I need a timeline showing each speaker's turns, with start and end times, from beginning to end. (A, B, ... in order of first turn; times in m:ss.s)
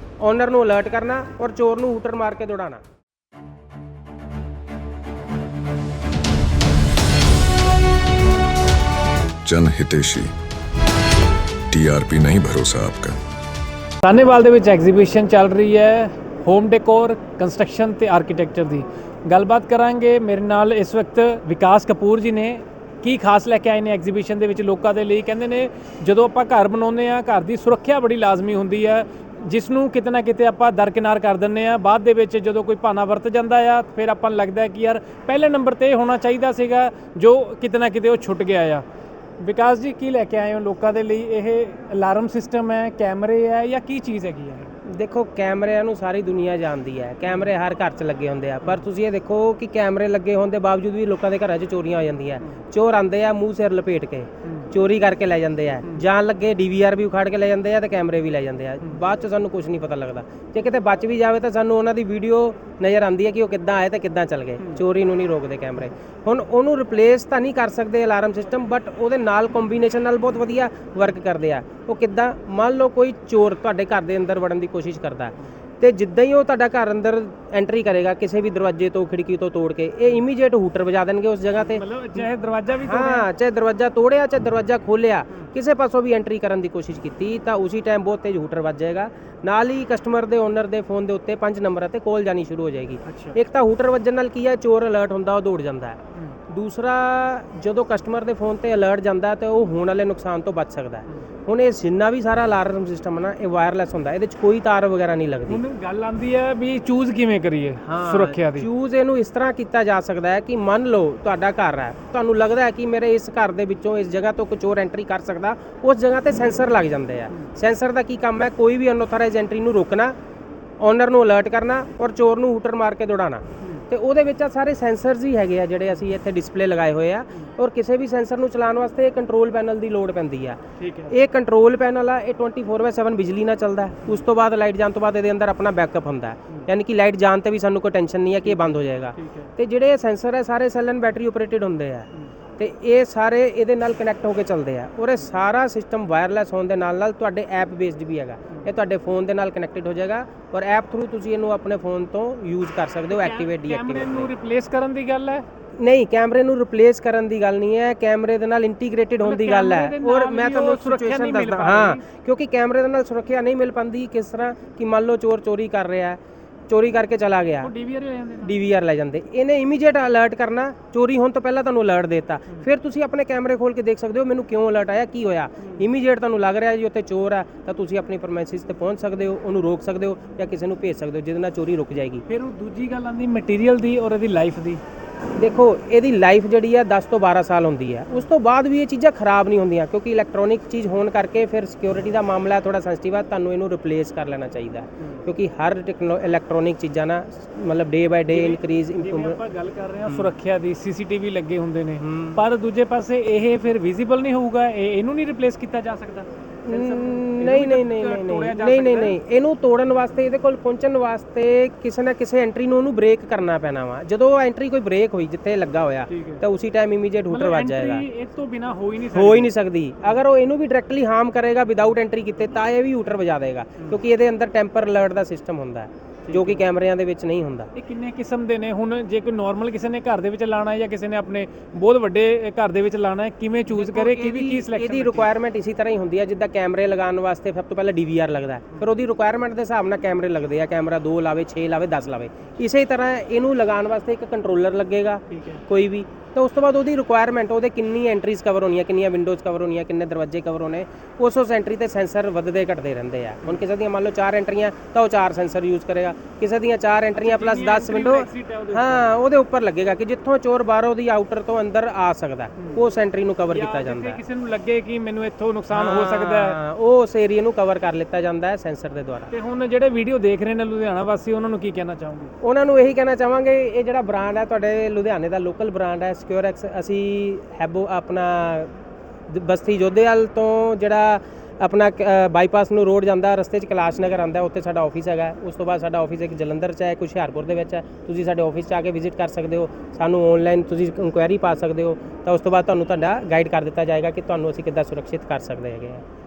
0:00.2-0:02.8 A
0:09.4-0:10.3 B
0:11.7-0:13.2 B
0:14.0-0:38.8 C
0:39.4-0:44.7 C
0:44.8-1:22.2 A
1:21.6-1:23.3 C
1:22.8-1:45.6 A
1:33.1-1:33.4 C
1:45.5-1:48.7 C
1:47.8-2:00.1 A
2:00.8-2:34.3 A
2:10.8-2:11.1 C
2:18.4-2:19.5 C
2:33.1-2:35.4 C
2:35.8-2:47.7 A
2:39.2-2:42.0 C
2:47.6-2:48.6 C
2:48.4-3:02.2 A
3:02.3-3:04.8 C
3:05.4-3:19.4 A
3:18.3-3:29.2 C
3:20.0-3:20.3 A
3:22.0-3:22.4 A
3:26.6-3:38.0 A
3:36.1-3:36.4 C
3:37.3-3:39.5 C
3:39.1-3:47.7 A
3:46.3-3:46.6 C
3:47.7-3:55.3 C
3:53.7-4:24.2 A
4:05.3-4:05.6 C
4:17.1-4:19.2 C
4:23.5-4:26.6 C
4:25.7-4:29.3 A
4:29.3-4:32.3 C
4:32.4-4:38.7 A
4:39.3-4:56.0 A